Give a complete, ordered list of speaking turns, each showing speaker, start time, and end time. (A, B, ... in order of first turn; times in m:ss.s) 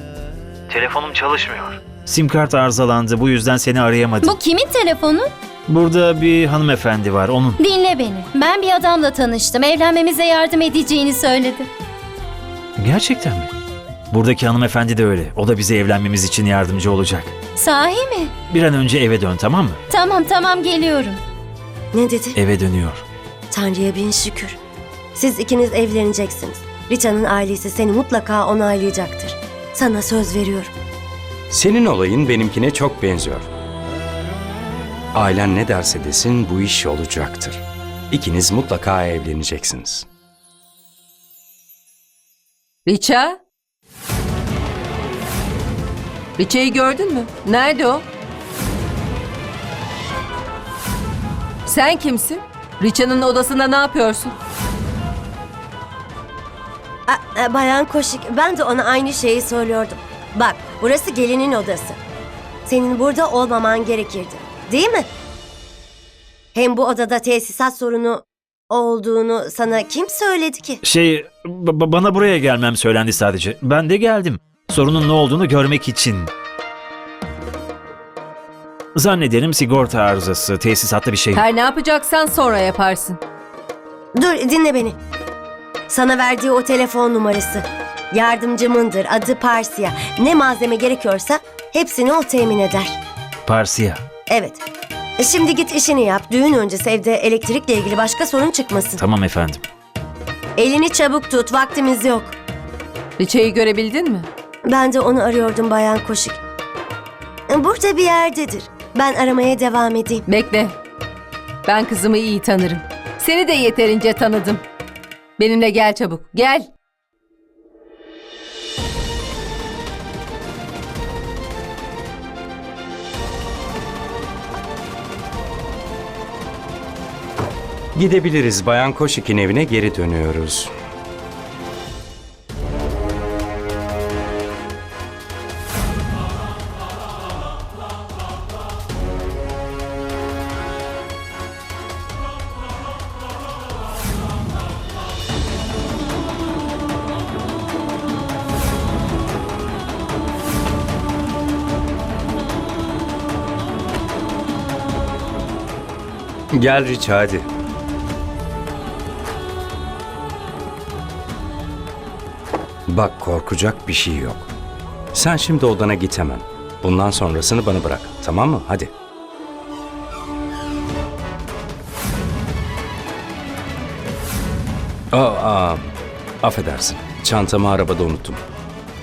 0:00.7-0:04.4 A
0:04.2-0:05.3 B
0:05.7-0:07.6 A
0:07.6-0:11.7 B
0:12.8-0:13.5 A
0:14.1-0:17.3 A
0:17.6-0:18.3 B
0:18.5-0:19.8 A
0:19.9-0:21.2 B
0:21.9-0:22.4 C
0:22.4-0:23.0 A
0:23.5-0:24.6 C
0:25.1-0:30.7 C
0:31.5-0:33.5 D
0:35.1-0:40.1 D
0:42.8-0:43.4 E
0:46.4-0:48.0 E
0:51.6-0:54.3 E
0:57.1-1:02.0 C
1:02.6-1:05.1 C
1:06.5-1:10.8 C
1:10.8-1:16.3 A
1:19.0-1:21.4 A
1:21.3-1:23.2 E
1:24.2-1:25.0 C
1:25.9-1:33.0 C
1:33.4-1:34.0 A
1:34.3-1:34.6 C
1:35.2-1:39.0 C
1:39.0-1:39.6 A
1:40.6-1:42.3 C
1:43.2-1:44.3 E
1:44.6-1:46.4 C
1:47.5-1:50.2 C
1:50.3-1:50.8 E
1:51.6-1:54.6 E
1:55.4-1:56.7 E
2:08.0-2:10.7 D
2:36.5-2:37.4 D
2:42.9-2:44.5 D
2:45.1-2:48.9 D
2:55.1-2:55.9 D
2:56.4-2:58.4 D